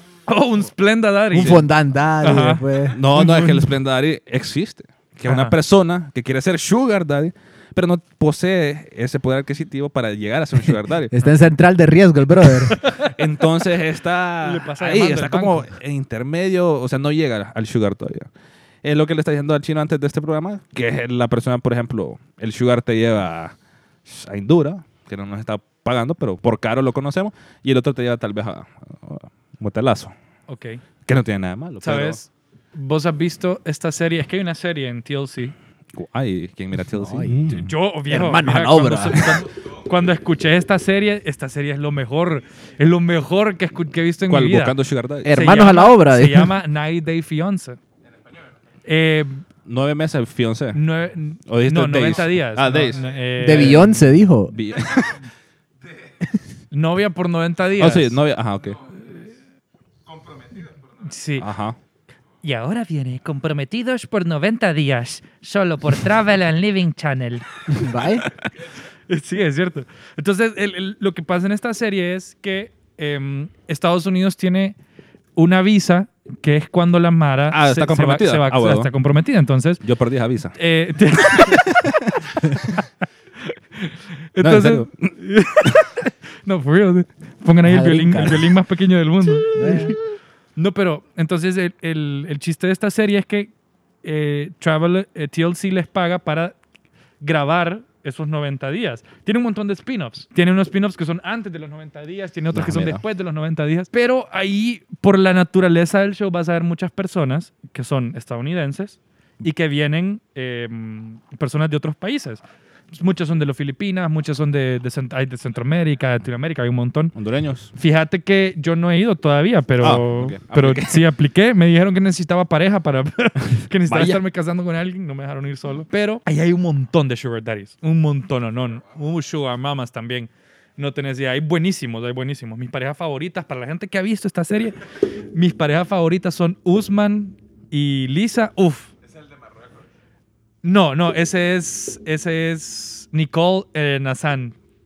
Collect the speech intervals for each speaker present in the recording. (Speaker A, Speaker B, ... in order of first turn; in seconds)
Speaker A: 0.3-1.6, 2.2-3.7, 5.2-5.5, 12.8-13.2, 14.4-15.7, 30.5-30.8, 31.8-35.5, 37.5-44.7, 45.3-47.8, 48.8-49.4, 50.7-53.9, 56.7-58.2, 61.0-61.5, 62.4-67.9, 69.1-74.8, 75.3-79.8, 80.5-81.9, 83.7-90.0, 90.5-93.5, 94.0-96.5, 97.2-117.1, 117.7-138.9, 140.6-144.5
Speaker B: 1.3-3.0, 11.1-12.8, 36.9-37.4, 38.1-39.4, 45.2-46.5, 53.4-54.5, 67.7-68.3, 87.6-88.5, 89.5-90.0
Speaker C: 1.4-1.6, 2.9-11.1, 12.8-18.3, 18.8-30.1, 31.1-32.2, 35.9-37.7, 44.3-45.3, 49.6-50.8, 51.5-53.0, 54.5-55.2, 57.8-58.9, 61.4-61.8, 77.5-78.9, 79.8-80.6, 81.3-82.2, 84.4-85.1, 102.5-103.0, 117.1-117.7, 119.8-121.0, 123.9-124.2